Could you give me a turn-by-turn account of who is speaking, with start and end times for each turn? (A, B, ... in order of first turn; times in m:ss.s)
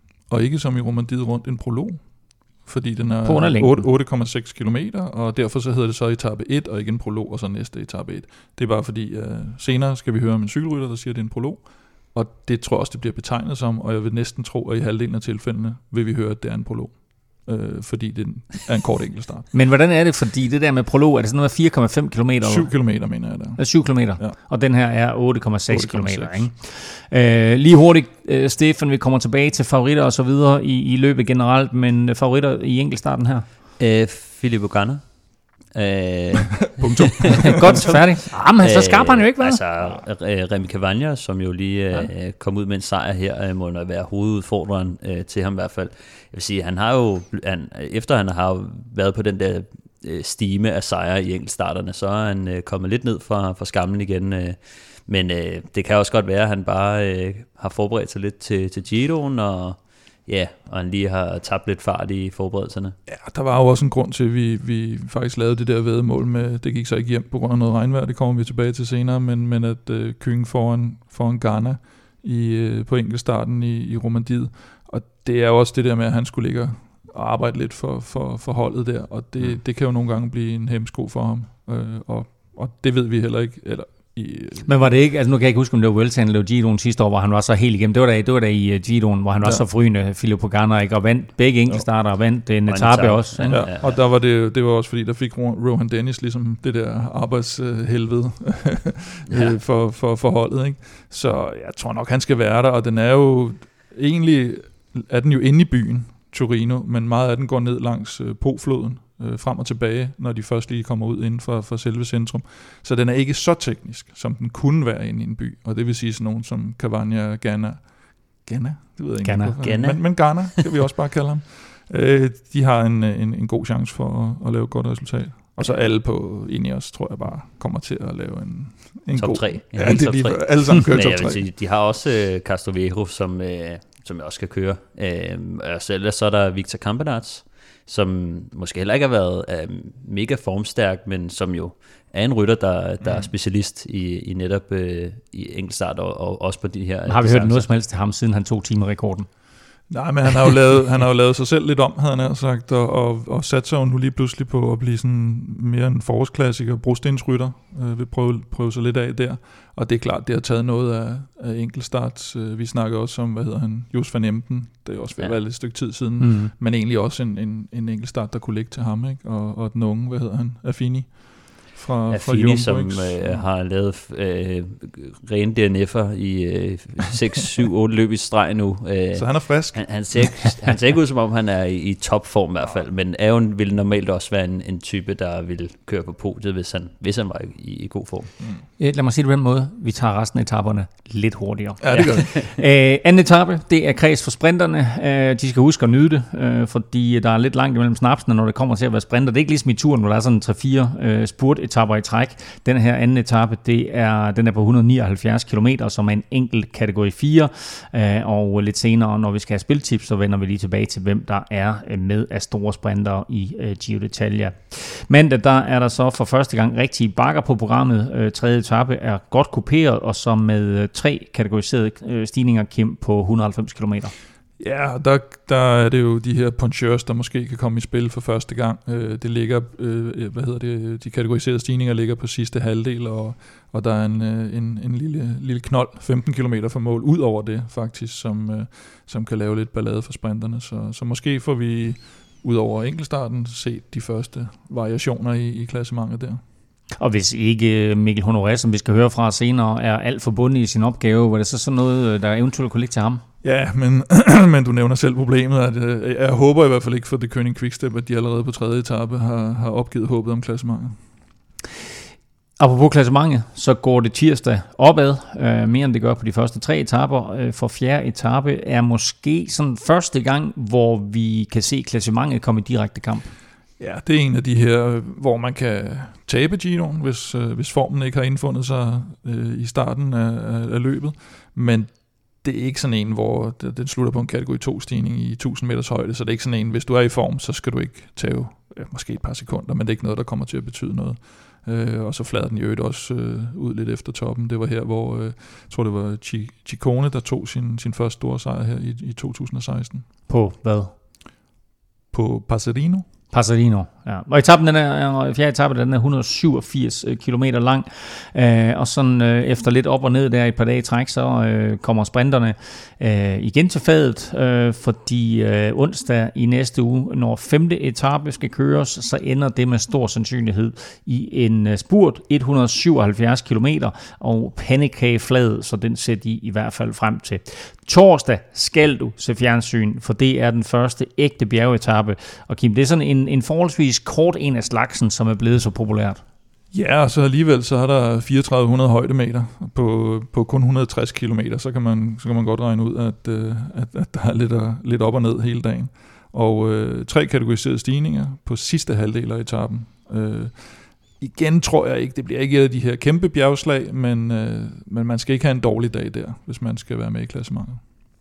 0:00.3-0:19.5 A
0:03.2-0:03.9 B
0:19.5-0:33.4 B
0:22.4-0:24.4 A
0:25.7-0:26.5 A
0:33.8-0:35.1 C
0:35.7-1:03.0 C
0:36.8-0:38.0 A
0:37.4-0:39.6 B
1:03.1-1:24.9 A
1:24.6-1:33.6 B
1:32.7-1:34.0 C
1:33.5-2:11.4 A
1:59.2-1:59.6 B
1:59.6-2:00.6 C
2:09.1-2:27.7 C
2:27.1-2:29.3 B
2:29.9-2:53.4 A
2:46.2-2:46.5 B
2:52.1-3:08.3 C
2:59.1-3:00.0 A
3:08.4-3:08.6 A
3:08.8-3:44.1 B
3:11.8-3:12.3 A
3:11.9-3:12.5 C
3:44.6-4:06.4 A
4:07.0-4:13.2 B
4:13.4-4:21.0 A
4:22.6-4:33.3 B
4:33.8-5:00.0 A
5:00.3-5:00.9 B
5:02.1-5:03.0 A
5:03.3-5:36.2 B
5:36.7-5:57.8 A